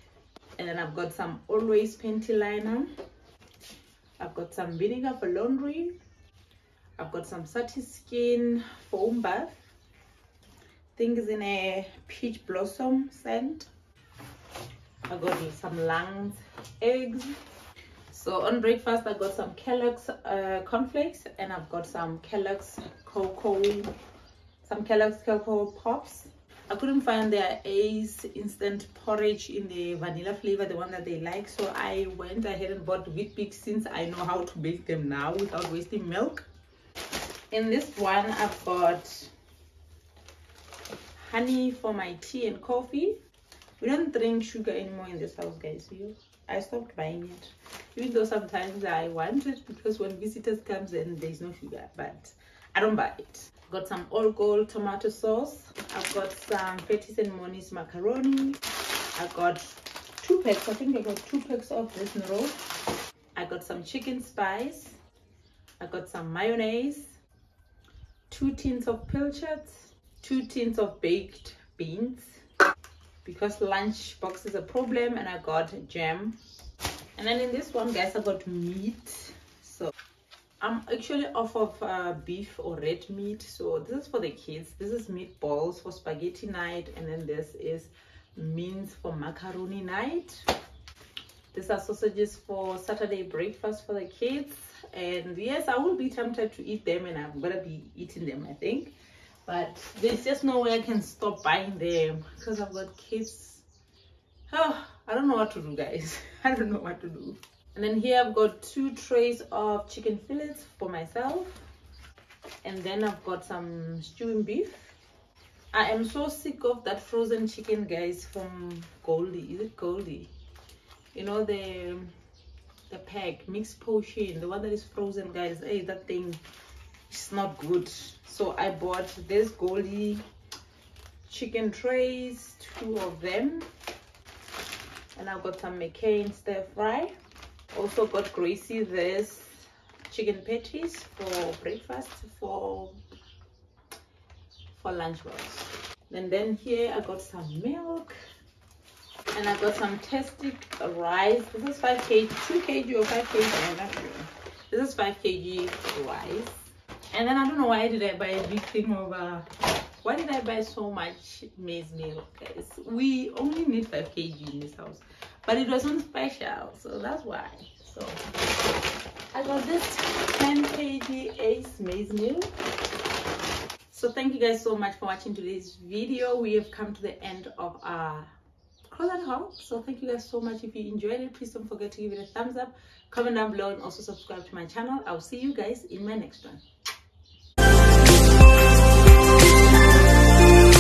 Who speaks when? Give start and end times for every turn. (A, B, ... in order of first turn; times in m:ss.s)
0:00.6-0:02.9 A
0:04.2-0:05.9 A
0:07.0-0:09.6 A
0:11.0-0:13.7 A
0:15.1-0:17.4 A
0:18.1-0:23.9 A
0:24.6-0:36.5 A
0:37.5-0:39.3 A
0:41.2-0:43.2 A
0:43.8-0:58.6 A
0:59.2-1:02.6 A
1:03.4-1:05.0 A
1:05.8-1:07.2 A
1:08.3-1:12.4 A
1:13.2-1:16.4 A
1:17.2-1:19.9 A
1:20.6-1:30.5 A
1:31.5-1:38.9 A
1:39.5-1:43.6 A
1:44.5-1:51.6 A
1:52.6-1:55.0 A
1:55.7-2:00.3 A
2:01.1-2:02.1 A
2:02.9-2:06.4 A
2:07.1-2:10.2 A
2:11.3-2:13.7 A
2:15.2-2:17.1 A
2:17.7-2:23.0 A
2:24.7-2:28.2 A
2:29.3-2:39.5 A
2:40.0-2:48.2 A
2:49.3-2:52.5 A
2:53.9-2:58.3 A
2:58.9-3:06.6 A